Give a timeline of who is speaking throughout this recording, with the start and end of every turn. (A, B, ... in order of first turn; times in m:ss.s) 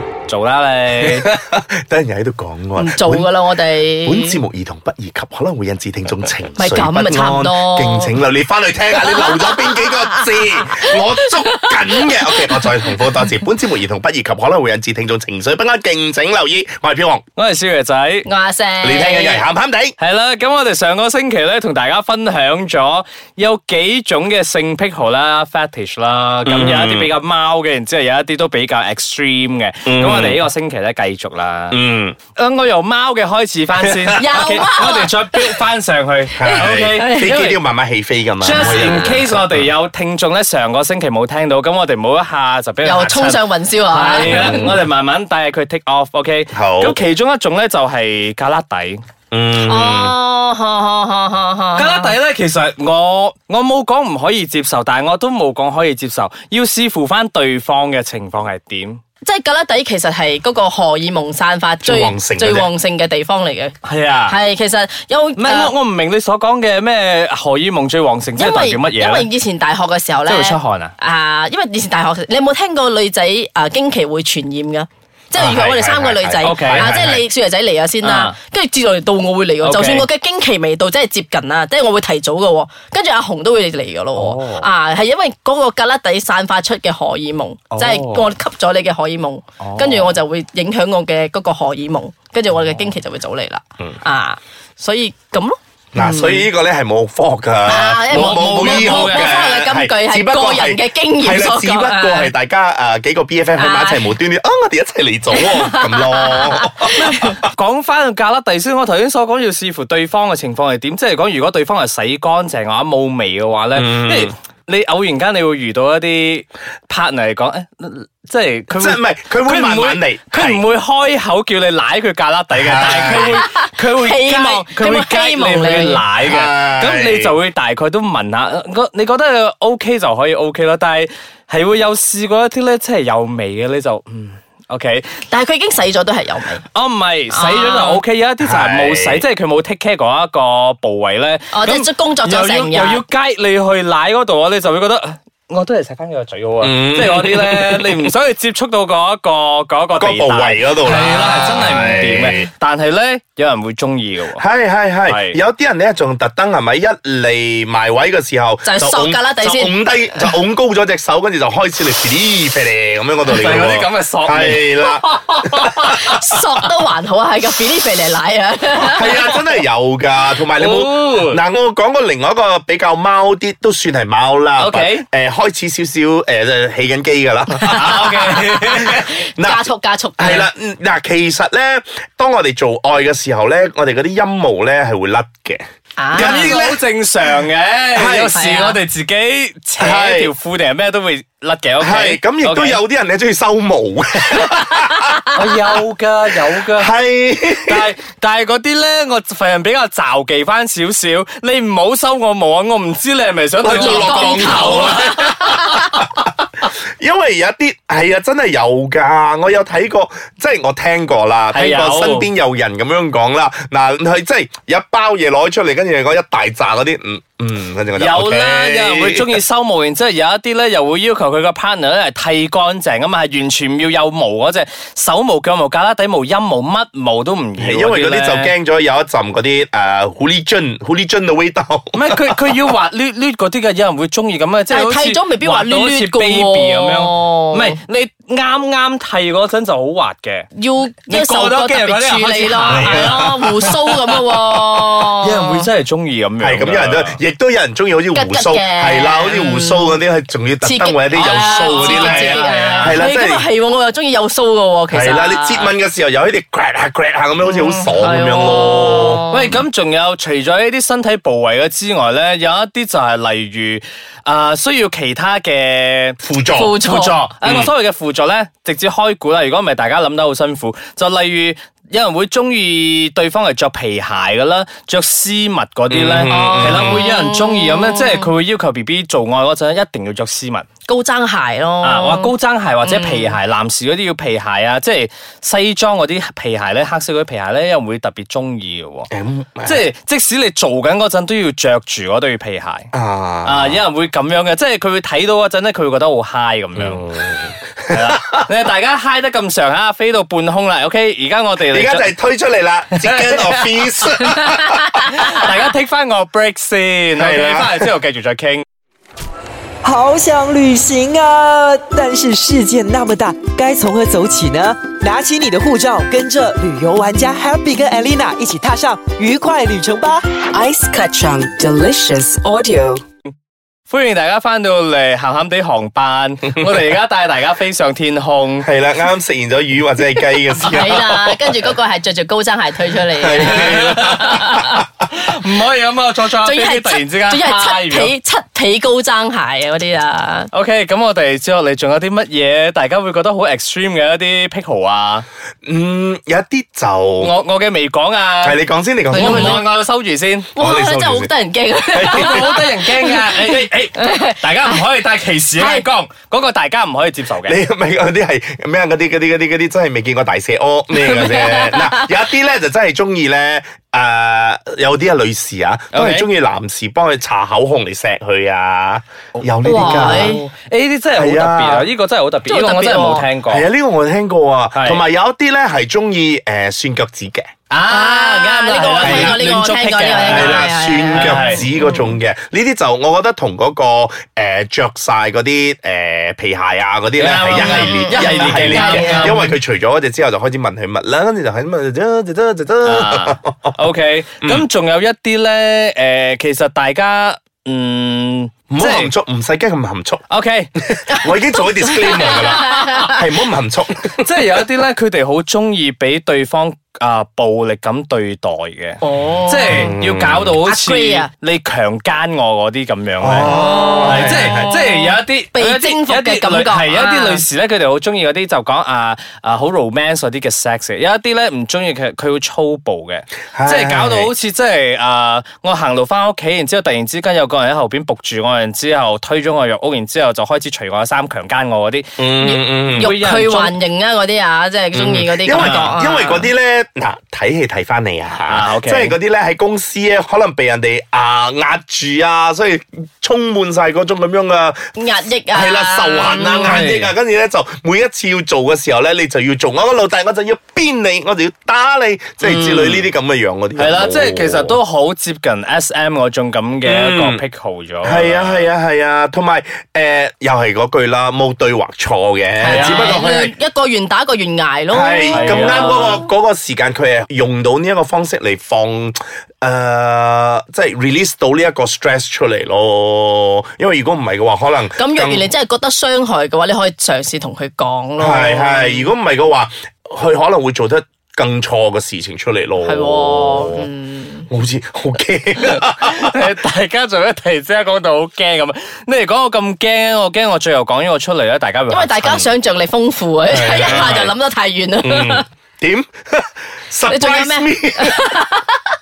0:00.3-0:01.3 A
0:01.0-0:03.3 B
0:02.8-0:04.4 C
0:04.0-0:17.2 B
0:06.6-0:08.2 C
0:08.9-0:13.3 C
0:17.4-0:18.3 A
0:18.2-0:19.4 C
0:18.8-0:20.0 B
0:20.0-0:31.8 A
0:26.5-0:27.1 B
0:29.9-0:30.4 B
0:31.7-0:32.2 B
0:32.4-0:37.6 A
0:34.2-0:35.1 C
0:36.4-0:39.7 B
0:36.5-0:37.3 C
0:38.4-0:49.0 A
0:38.6-0:39.0 C
0:42.8-0:44.8 C
0:44.2-0:44.8 B
0:46.5-0:47.0 B
0:49.3-0:50.2 B
0:49.6-0:52.2 C
0:51.8-0:59.0 A
0:59.2-1:03.7 C
1:01.8-1:02.7 B
1:03.8-1:04.4 A
1:04.3-1:05.7 C
1:05.4-1:09.3 A
1:08.4-1:36.5 C
1:10.3-1:10.9 A
1:15.3-1:17.2 B
1:16.4-1:17.0 A
1:18.0-1:18.4 A
1:19.6-1:20.1 A
1:24.2-1:24.6 A
1:27.7-1:28.3 A
1:29.6-1:30.2 A
1:32.6-1:32.8 A
1:35.9-1:47.4 B
1:37.7-1:42.3 C
1:38.1-1:39.5 A
1:43.6-1:44.1 C
1:45.3-1:47.3 C
1:46.9-2:15.1 A
1:53.7-1:54.3 B
1:58.7-2:00.6 B
2:02.5-2:03.4 B
2:03.2-2:06.0 C
2:06.2-2:07.4 B
2:15.3-2:16.6 C
2:16.7-2:34.4 A
2:17.3-2:18.0 C
2:18.4-2:19.2 B
2:21.5-2:23.0 C
2:26.6-2:28.1 B
2:30.0-2:32.5 B
2:34.4-2:46.0 B
2:35.1-2:35.4 A
2:38.6-2:40.3 C
2:43.2-2:46.6 A
2:45.9-2:49.2 C
2:48.8-2:59.7 B
2:50.6-2:51.4 A
2:54.6-2:55.0 A
2:57.7-2:59.1 A
2:58.3-3:00.4 C
3:00.2-3:06.8 B
3:06.0-3:06.6 C
3:06.2-3:12.8 A
3:07.9-3:08.4 B
3:08.3-3:08.8 C
3:09.8-3:10.3 B
3:11.8-3:15.4 B
3:15.3-3:16.9 A
3:16.7-3:17.8 B
3:17.6-3:26.1 A
3:23.6-3:26.0 B
3:23.7-3:25.0 C
3:27.0-3:39.4 B
3:31.5-3:32.3 A
3:38.0-3:48.5 A
3:47.6-3:52.2 B
3:51.9-4:00.5 A
3:54.7-3:57.8 C
4:00.6-4:05.7 C
4:01.1-4:03.9 A
4:02.7-4:03.7 B
4:05.0-4:07.2 A
4:06.4-4:13.5 B
4:08.1-4:10.0 C
4:10.6-4:15.7 C
4:11.1-4:13.0 A
4:14.9-4:19.2 B
4:17.4-4:19.6 C
4:19.3-4:26.2 A
4:26.2-4:26.8 B
4:26.6-4:27.2 C
4:26.8-4:40.7 A
4:27.4-4:27.7 B
4:35.9-4:37.0 B
4:36.3-4:38.3 C
4:40.9-4:43.4 C
4:41.8-4:49.1 A
4:49.1-4:49.8 B
4:49.6-4:52.9 A
4:52.9-4:53.8 B
4:53.4-5:02.1 A
4:56.8-4:58.2 B
5:01.7-5:05.0 B
5:02.9-5:08.6 A
5:07.2-5:07.9 B
5:09.8-5:20.3 D
5:20.5-5:23.0 E
5:23.9-5:28.7 A
5:28.6-5:31.4 B
5:30.6-5:34.7 C
5:33.2-5:34.4 B
5:33.5-5:38.1 A
5:36.4-5:40.5 C
5:40.5-5:45.3 A
5:45.6-5:47.3 B
5:47.2-5:48.6 A
5:48.4-5:49.6 B
5:49.1-5:49.6 C
5:49.1-5:50.5 A
5:50.6-5:51.3 B
5:50.6-5:54.8 C
5:51.9-5:52.5 B
5:52.0-5:57.6 A
5:55.6-5:55.8 C
5:57.4-6:10.4 B
6:00.9-6:02.1 C
6:05.9-6:06.3 A
6:09.4-6:13.7 A
6:09.6-6:10.4 C
6:11.2-6:11.9 B
6:12.5-6:13.3 C
6:13.5-6:17.5 B
6:14.7-6:15.0 A
6:17.7-6:21.6 A
6:17.9-6:22.2 C
6:19.0-6:19.4 B
6:20.2-6:33.8 B
6:27.2-6:29.5 A
6:27.6-6:29.5 C
6:32.8-6:39.1 A
6:38.7-6:40.2 B
6:40.3-6:40.7 A
6:40.8-6:44.2 B
6:41.1-6:43.2 C
6:42.3-6:43.0 A
6:44.1-6:53.5 A
6:49.0-6:49.9 C
6:49.7-6:50.5 B
6:50.6-6:51.3 C
6:53.2-6:54.7 B
6:53.4-6:57.4 C
6:54.0-7:13.8 A
7:03.5-7:04.3 B
7:12.2-7:13.1 B
7:13.0-7:16.5 C
7:14.9-7:24.9 B
7:15.5-7:15.9 A
7:18.4-7:19.2 A
7:25.0-7:26.8 C
7:25.5-7:34.8 B
7:26.6-7:27.1 A
7:32.4-7:33.1 A
7:33.8-7:38.7 A
7:36.8-7:37.4 B
7:38.0-7:43.5 B
7:42.6-7:46.2 C
7:42.7-7:43.2 A
7:44.9-7:55.5 B
7:45.3-7:46.2 A
7:55.0-7:59.1 C
7:58.2-8:03.9 B
8:02.8-8:04.5 C
8:04.5-8:06.3 B
8:05.7-8:12.5 A
8:11.9-8:15.4 C
8:13.5-8:14.3 B
8:13.8-8:14.3 A
8:15.0-8:18.2 B
8:17.1-8:18.8 C